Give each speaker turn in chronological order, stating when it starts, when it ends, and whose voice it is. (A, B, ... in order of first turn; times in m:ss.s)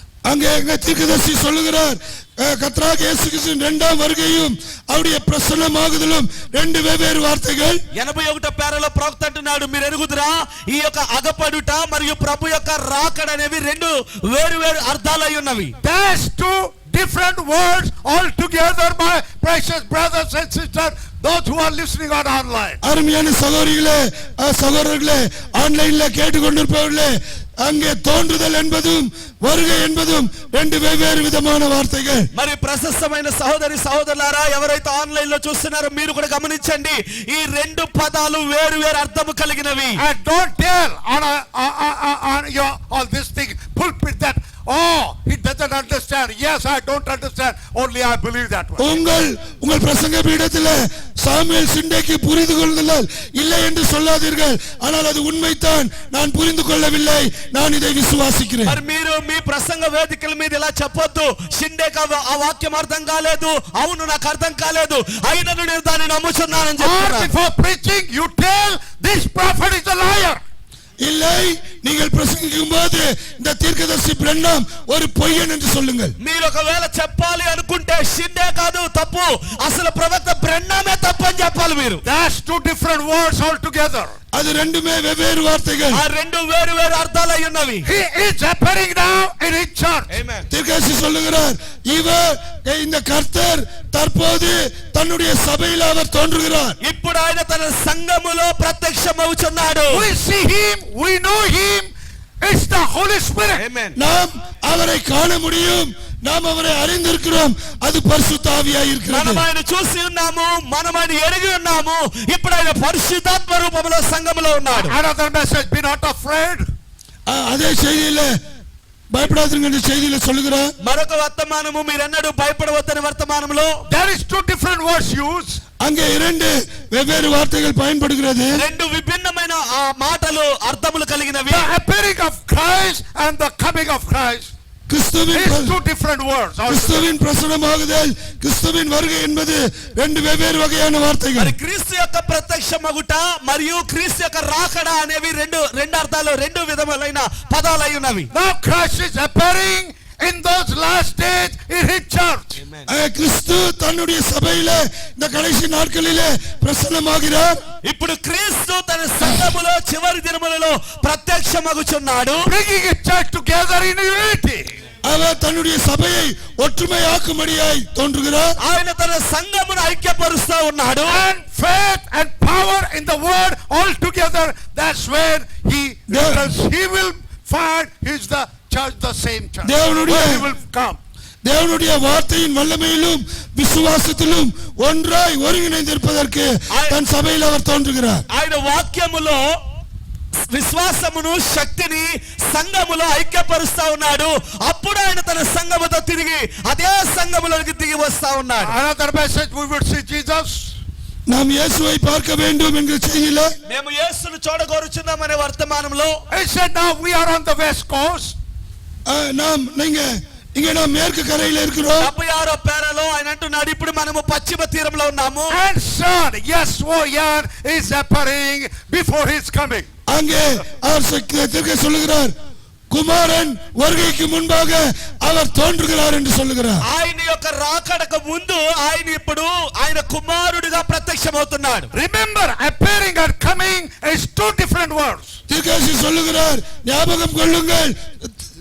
0:00.2-0:07.8 A
0:07.9-0:15.8 B
0:15.8-0:22.8 C
0:22.8-0:32.3 A
0:32.3-0:40.0 B
0:40.0-0:49.0 C
0:48.8-0:58.8 A
0:58.7-1:07.3 B
1:06.8-1:10.4 C
1:11.0-1:16.1 A
1:16.2-1:22.0 B
1:22.0-1:24.1 C
1:24.3-1:26.0 A
1:25.9-1:27.9 B
1:27.8-1:30.2 C
1:30.1-1:30.5 B
1:30.5-1:36.8 A
1:36.8-1:40.1 B
1:39.9-1:43.6 C
1:43.6-1:44.0 B
1:44.0-1:49.4 A
1:49.1-1:55.0 B
1:54.7-1:56.7 C
1:57.3-1:58.3 A
1:59.1-2:00.7 A
2:00.8-2:03.8 B
2:03.9-2:05.6 C
2:05.8-2:08.6 A
2:08.5-2:11.7 B
2:11.5-2:14.5 C
2:14.9-2:15.7 A
2:15.3-2:17.2 C
2:16.7-2:21.5 A
2:21.4-2:28.3 B
2:28.3-2:32.6 C
2:32.9-2:37.6 A
2:37.8-2:42.5 B
2:42.4-2:44.7 C
2:45.0-2:48.6 A
2:48.6-2:51.2 B
2:51.0-3:01.0 C
2:56.1-2:56.5 A
2:59.6-3:00.4 A
3:01.4-3:08.2 A
3:06.7-3:07.0 B
3:08.3-3:09.4 B
3:10.5-3:18.7 B
3:18.6-3:20.8 C
3:21.3-3:23.5 A
3:23.7-3:26.2 B
3:26.3-3:28.4 C
3:29.1-3:32.1 A
3:32.0-3:35.5 B
3:35.5-3:39.9 C
3:40.1-3:42.3 A
3:42.9-3:46.8 A
3:46.8-3:51.9 B
3:51.9-3:55.4 C
3:55.5-3:57.9 A